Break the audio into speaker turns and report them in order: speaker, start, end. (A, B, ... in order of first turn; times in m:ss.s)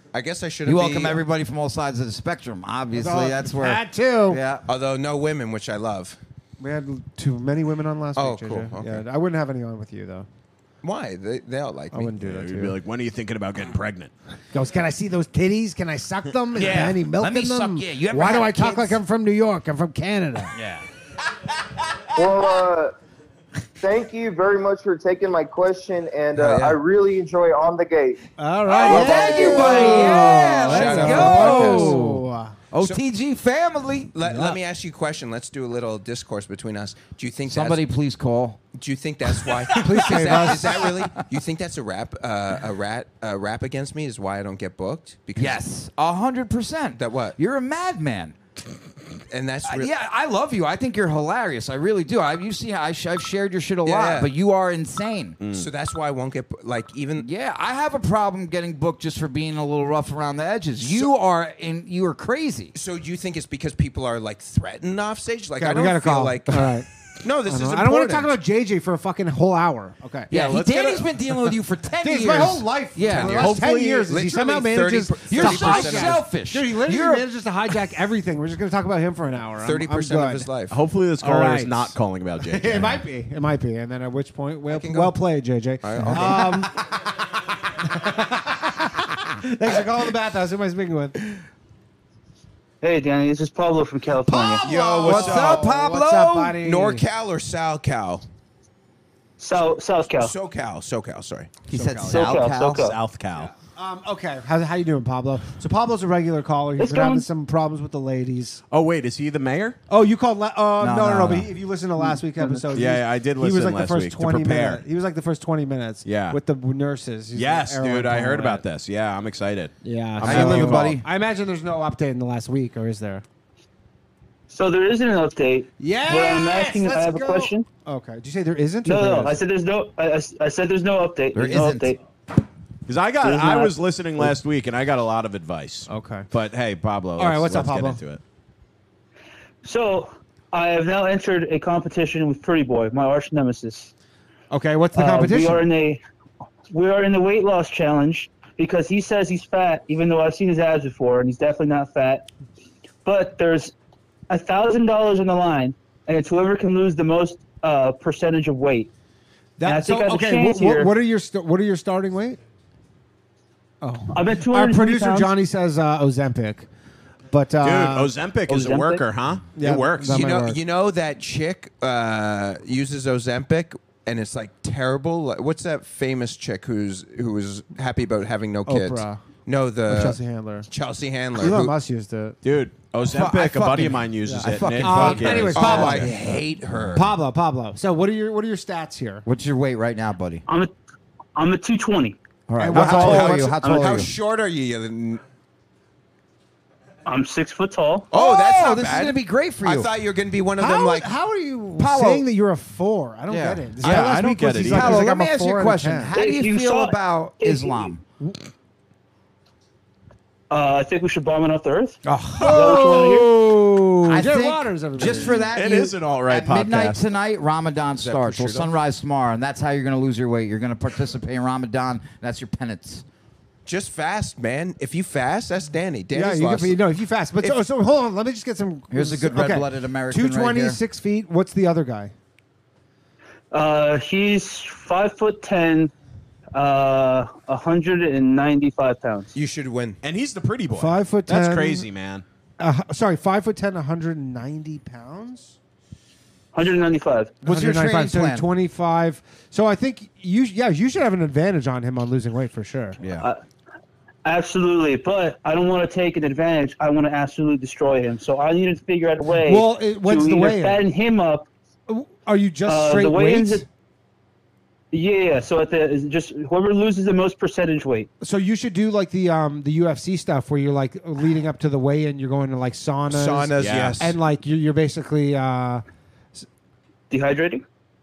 0:00.1-0:01.2 A
0:00.7-0:04.6 B
0:03.0-0:04.4 C
0:04.7-0:06.2 A
0:06.6-0:10.3 C
0:08.2-0:09.0 A
0:10.8-0:12.1 A
0:11.9-0:12.8 C
0:12.2-0:14.1 D
0:14.5-0:20.5 C
0:16.6-0:19.0 B
0:20.5-0:20.8 B
0:22.2-0:22.9 E
0:23.8-0:28.2 E
0:26.4-0:26.8 A
0:28.4-0:32.6 C
0:28.8-0:34.1 B
0:28.8-0:32.0 A
0:28.9-0:29.8 E
0:34.1-0:37.8 A
0:34.3-0:34.5 C
0:37.5-0:38.6 B
0:38.8-0:45.6 A
0:39.7-0:40.8 C
0:40.0-0:41.1 B
0:45.4-0:48.4 B
0:47.0-0:47.4 A
0:49.3-0:49.9 A
0:49.6-0:55.4 B
0:53.8-0:54.3 A
0:55.4-0:55.7 D
0:55.5-0:57.3 A
0:57.2-1:02.7 B
1:00.8-1:01.1 A
1:02.7-1:08.3 A
1:05.6-1:06.9 C
1:07.4-1:10.3 C
1:10.3-1:13.6 B
1:10.3-1:10.9 D
1:12.0-1:20.5 C
1:13.2-1:14.1 D
1:14.1-1:16.2 A
1:15.3-1:17.3 B
1:19.6-1:20.8 A
1:20.7-1:23.0 D
1:21.2-1:26.7 C
1:24.7-1:25.2 A
1:25.8-1:26.7 A
1:26.2-1:26.4 B
1:27.8-1:31.2 C
1:32.8-1:34.7 F
1:34.3-1:37.0 C
1:34.6-1:35.6 A
1:34.8-1:36.6 B
1:35.1-1:35.5 D
1:36.6-1:38.2 A
1:39.4-1:40.3 F
1:40.2-1:41.6 A
1:41.7-1:42.9 B
1:41.8-1:42.0 C
1:42.1-1:42.9 F
1:42.7-1:43.5 D
1:43.8-1:48.6 C
1:46.8-1:47.3 F
1:48.7-1:49.8 D
1:49.9-1:58.6 C
1:50.8-1:51.5 B
1:52.7-1:54.8 D
1:56.0-1:56.4 D
1:57.3-2:00.9 D
1:59.8-2:03.2 C
2:00.2-2:01.0 B
2:04.5-2:07.7 F
2:05.8-2:09.4 C
2:08.8-2:12.0 F
2:11.3-2:11.9 B
2:12.9-2:18.2 D
2:13.2-2:13.7 F
2:15.9-2:16.3 C
2:17.2-2:18.0 C
2:19.6-2:23.9 F
2:24.5-2:25.6 C
2:25.0-2:26.0 F
2:26.7-2:32.3 F
2:33.0-2:33.7 F
2:34.3-2:38.9 F
2:39.6-2:42.4 C
2:39.6-2:40.9 F
2:43.8-2:46.7 C
2:44.1-2:45.3 F
2:47.3-2:48.1 C
2:47.6-2:50.3 D
2:48.5-2:49.1 F
2:49.6-2:50.6 C
2:50.1-3:01.7 A
2:58.7-2:59.2 C
2:59.9-3:00.7 C
3:01.4-3:02.4 C
3:02.4-3:06.1 D
3:03.1-3:06.3 B
3:04.2-3:06.1 C
3:05.6-3:07.1 A
3:06.9-3:09.2 C
3:09.2-3:10.4 B
3:11.4-3:12.2 F
3:12.5-3:14.1 B
3:12.6-3:14.0 C
3:12.8-3:15.2 A
3:17.1-3:18.1 F
3:18.1-3:21.1 A
3:18.1-3:19.9 B
3:20.6-3:26.1 C
3:21.8-3:22.2 B
3:23.3-3:28.0 B
3:23.8-3:25.0 D
3:26.1-3:27.9 F
3:30.5-3:33.3 F
3:32.1-3:33.3 B
3:32.4-3:35.4 C
3:34.0-3:43.0 B
3:35.5-3:37.0 D
3:38.0-3:38.7 A
3:43.7-3:46.8 A
3:46.1-3:52.1 C
3:48.9-3:50.8 B
3:53.5-3:55.9 F
3:56.5-3:59.3 F
3:59.3-4:00.0 A
4:00.0-4:02.2 D
4:00.7-4:01.9 C
4:02.6-4:05.6 C
4:06.5-4:07.4 F
4:07.4-4:08.5 B
4:07.4-4:13.0 C
4:13.0-4:13.3 B
4:14.2-4:21.5 F
4:19.4-4:20.8 C
4:21.9-4:23.6 C
4:22.7-4:23.6 F
4:24.9-4:28.1 F
4:28.2-4:35.8 C
4:33.1-4:34.1 A
4:33.6-4:34.1 D
4:37.1-4:37.6 F